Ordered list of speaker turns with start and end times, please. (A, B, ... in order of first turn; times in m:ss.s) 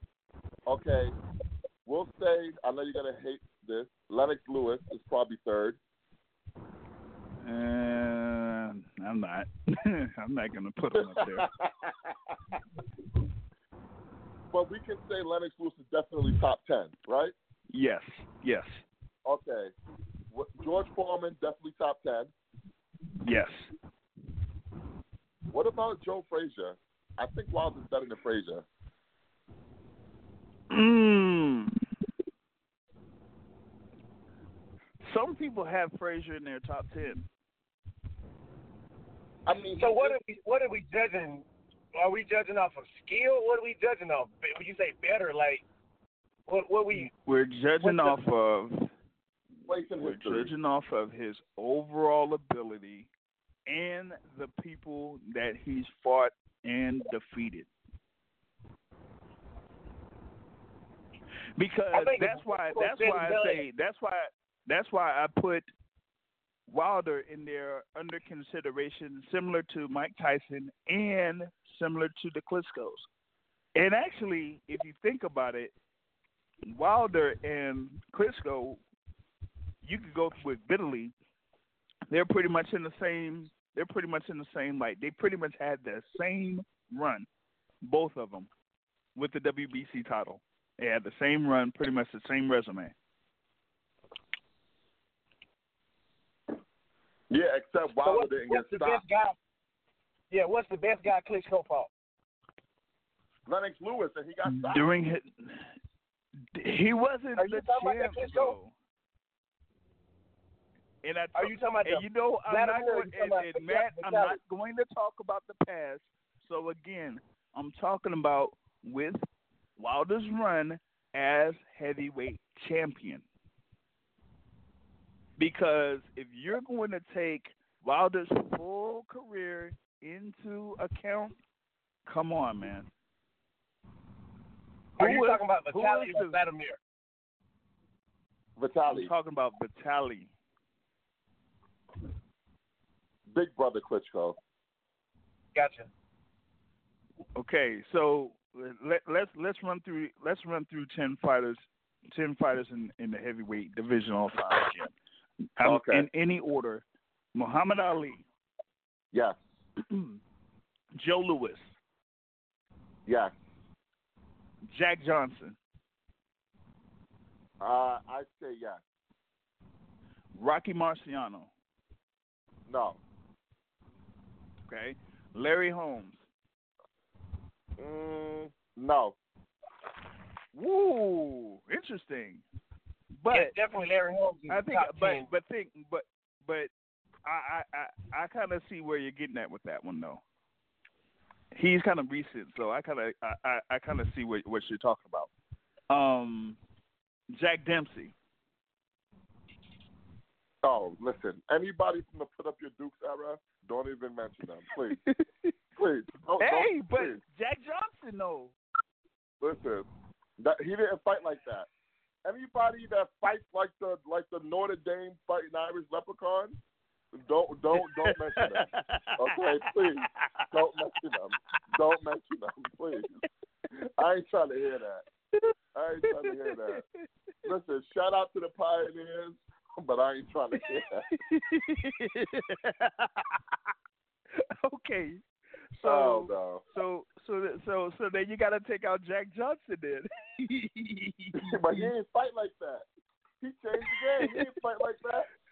0:00.6-0:01.1 A
0:01.8-0:05.8 A
0:07.4-0:11.4 B
0:10.9-0:12.5 A
0:14.5-0:17.3 A
0:17.7-0:18.8 B
0:19.2-0:19.7 A
0:20.3-0:22.3 A
0:23.2-0:23.7 B
0:25.5-0:28.6 A
0:30.7-0:31.8 B
0:35.0-0:37.3 B
0:39.4-0:40.2 A
0:39.8-0:41.4 C
0:42.0-0:45.6 C
0:46.5-0:47.1 C
0:46.9-0:48.9 B
0:47.8-0:48.2 C
0:49.6-0:50.5 A
0:50.0-0:53.1 B
0:53.7-0:57.7 B
1:01.6-1:05.7 B
1:01.9-1:03.6 C
1:06.7-1:13.1 B
1:13.7-1:15.7 B
1:16.6-1:18.8 B
1:19.8-1:21.1 B
1:22.1-1:27.3 B
1:27.8-1:28.5 B
1:29.2-1:32.9 B
1:37.3-1:39.0 A
1:38.0-1:39.4 C
1:40.3-1:41.9 C
1:43.4-1:44.9 A
1:44.4-1:45.7 B
1:46.5-1:48.7 B
1:47.4-1:48.5 C
1:51.0-1:59.2 B
1:51.3-1:54.4 C
1:59.8-2:03.2 B
2:05.4-2:11.4 B
2:12.0-2:12.9 B
2:15.0-2:16.4 B
2:15.0-2:16.8 C
2:18.6-2:19.1 A
2:18.8-2:20.3 B
2:23.3-2:24.4 A
2:25.5-2:25.9 C
2:27.4-2:34.9 B
2:35.6-2:38.2 B
2:35.6-2:36.1 A
2:39.1-2:39.4 A
2:39.8-2:40.2 B
2:40.9-2:41.7 B
2:43.0-2:43.3 A
2:44.7-2:45.6 B
2:47.6-2:48.8 A
2:50.3-2:51.5 B
2:52.7-2:53.0 A
2:54.7-2:56.2 B
2:57.8-2:59.2 A
3:00.5-3:02.4 B
3:03.2-3:03.5 B
3:03.3-3:05.3 C
3:04.5-3:06.7 B
3:07.2-3:10.2 B
3:11.5-3:15.3 B
3:15.9-3:16.6 B
3:17.3-3:18.2 B
3:20.6-3:25.0 A
3:24.9-3:25.5 B
3:25.8-3:27.2 A
3:26.4-3:28.6 B
3:29.4-3:29.9 A
3:30.4-3:31.7 A
3:32.2-3:36.6 A
3:37.1-3:43.1 A
3:37.8-3:40.5 B
3:43.7-3:45.0 A
3:45.7-3:46.8 A
3:46.1-3:47.0 B
3:47.4-3:51.1 A
3:51.1-3:53.5 B
3:54.4-3:55.2 B
3:55.7-4:01.9 B
3:55.8-3:56.6 A
4:01.4-4:02.8 A
4:03.4-4:05.3 A